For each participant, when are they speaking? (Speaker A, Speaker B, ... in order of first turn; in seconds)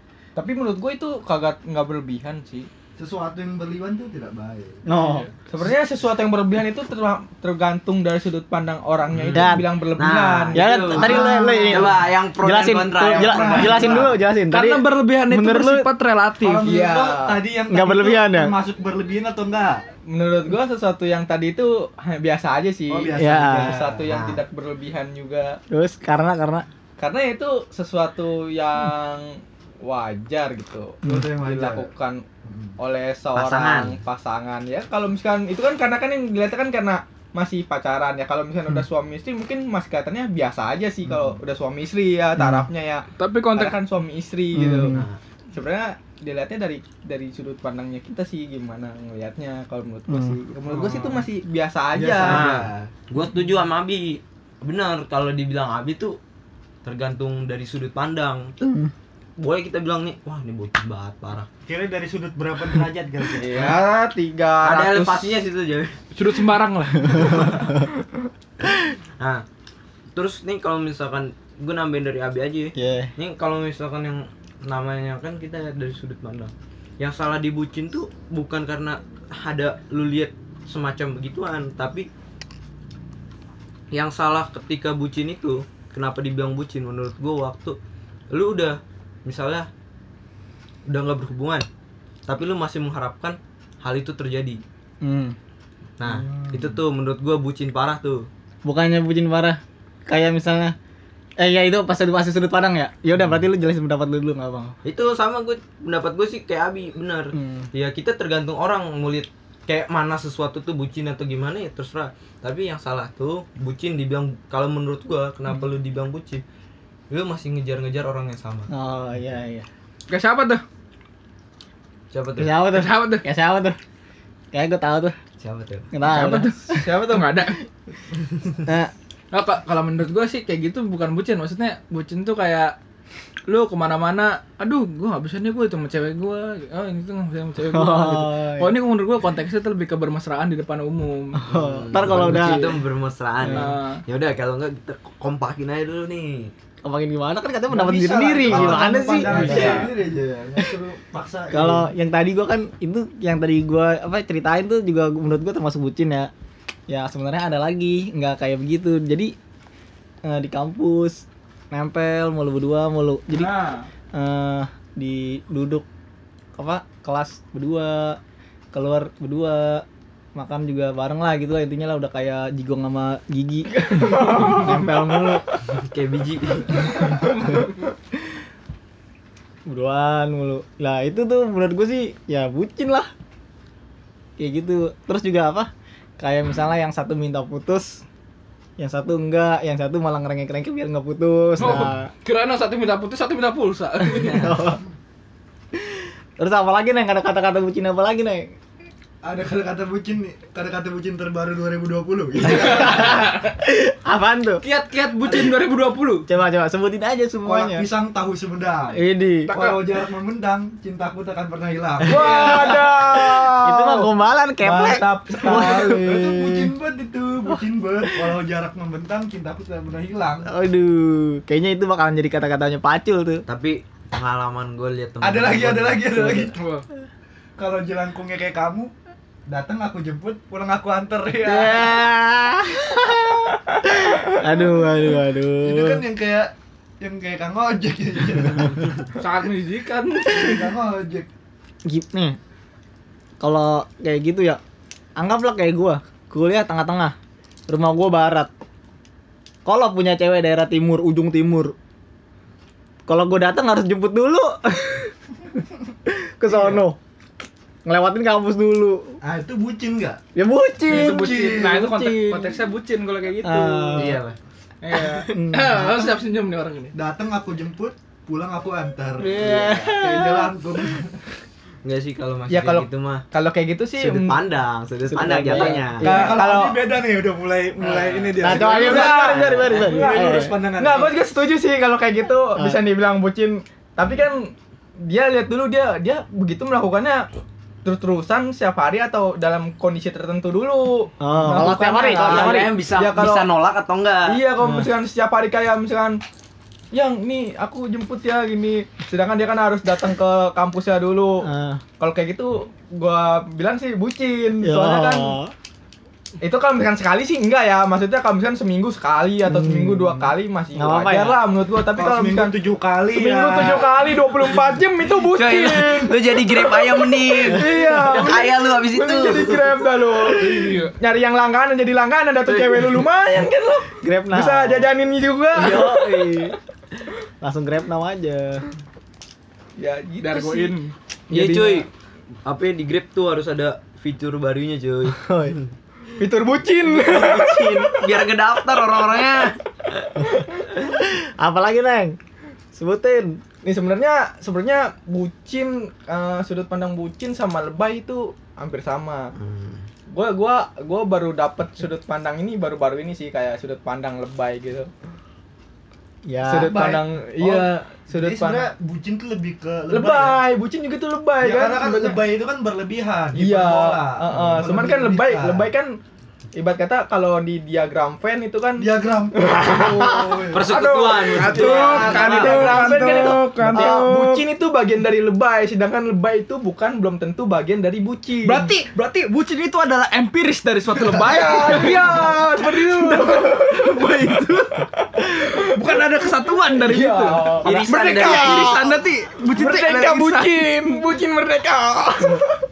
Speaker A: 0.3-2.7, 5.5-11.5, 16.6-17.4, 20.1-25.6, 27.0-32.2, 32.8-45.0, 45.5-52.5, 63.4-65.4, 174.0-174.6, 212.1-214.1, 214.6-216.1, 272.5-274.4, 275.5-276.8, 278.5-287.2, 287.8-293.5, 294.3-296.2, 296.9-301.4, 302.0-305.4, 306.4-312.6, 313.1-316.1, 317.3-326.1, 329.8-330.8, 331.3-331.8, 336.2-338.0, 343.6-349.3, 350.1-354.9, 356.4-358.7, 359.9-362.2, 363.3-366.0, 366.5-378.7, 381.1-383.9, 385.2-385.6, 386.8-388.9, 389.5-392.6
Speaker B: 3.0-4.8, 10.9-12.0, 13.0-14.2, 16.4-19.8, 22.9-24.0, 31.0-31.9, 32.4-32.7, 41.0-41.4, 50.6-51.3, 51.9-52.9, 61.6-63.8, 96.0-96.8, 147.7-151.9, 199.2-203.3, 207.4-212.8, 215.4-220.5, 225.2-226.6, 227.6-228.9, 229.5-232.1, 235.6-239.1, 240.3-241.3, 256.5-256.8, 259.2-260.2, 260.9-262.0, 266.9-271.2, 276.0-281.2, 311.9-314.1, 356.6-360.4, 361.4-365.7, 368.8-373.7, 381.0-381.8
Speaker C: 4.8-5.3, 9.3-9.7, 10.5-15.9, 17.7-18.5, 23.1-23.8, 25.7-26.6, 42.4-42.7, 44.5-45.0, 50.1-50.4, 58.6-58.9, 72.7-73.1, 95.0-95.3, 98.6-100.7, 101.4-104.7, 107.3-107.7, 118.7-119.7, 122.4-123.8, 124.5-125.2, 125.9-127.2, 128.6-128.9, 137.6-138.8, 141.3-142.8, 143.4-143.7, 146.8-149.9, 151.5-156.3, 156.9-159.3, 160.2-163.5, 164.1-165.8, 166.6-168.2, 168.7-175.4, 179.7-183.1, 184.4-188.0, 188.8-192.1, 194.3-194.8, 195.7-198.6, 202.4-204.6, 206.3-207.8, 208.9-209.6, 212.0-216.7, 217.5-218.4, 220.4-223.4, 226.1-226.5, 231.4-236.0, 241.8-242.4, 243.4-244.6, 245.2-247.1, 247.7-248.5, 249.6-251.7, 253.1-255.1, 256.0-257.0, 257.9-259.2, 260.3-262.6, 263.4-264.2, 265.1-266.1, 269.2-271.0, 275.1-276.3, 277.8-280.6, 291.2-292.7, 294.6-294.9, 301.4-301.8, 304.6-305.5, 309.4-310.2, 310.7-311.4, 324.0-324.9, 325.5-326.6, 327.4-328.6, 335.1-335.6, 340.7-342.1, 342.7-343.4, 356.2-356.8, 373.7-374.0
Speaker D: 4.9-5.3, 14.5-16.7, 43.2-43.8, 66.1-67.7, 120.1-120.6, 122.7-123.2, 126.0-127.6, 129.3-132.7, 133.5-141.5, 142.2-142.6, 143.5-144.0, 149.3-149.9, 163.3-163.9, 173.9-174.7, 177.1-177.7, 191.6-194.6, 202.6-203.2, 204.6-206.3, 209.5-209.7, 226.3-226.8, 239.2-240.6, 260.9-264.1, 264.8-266.9, 320.3-320.9, 330.2-330.9, 371.3-374.4, 378.4-384.9, 385.5-390.6
Speaker E: 9.1-14.2, 24.1-24.4, 33.3-33.9, 44.9-45.2, 52.2-56.2, 56.8-58.5, 59.4-61.5, 64.6-66.0, 67.2-67.4, 69.2-69.4, 70.1-82.1, 83.9-87.8, 88.3-89.7, 90.9-91.6, 92.3-94.6, 96.0-98.3, 104.8-116.4, 117.1-118.7, 122.1-122.5, 125.4-125.9, 141.5-146.5, 148.5-149.8, 175.7-177.2, 194.1-194.6, 223.5-226.0, 263.9-264.4, 269.4-269.7, 271.8-273.2, 274.0-276.2, 278.9-279.8, 292.2-294.4, 315.2-319.8, 322.5-323.0, 331.3-331.9, 332.4-335.7, 336.9-340.1, 349.4-349.8, 370.5-372.9, 387.6-388.9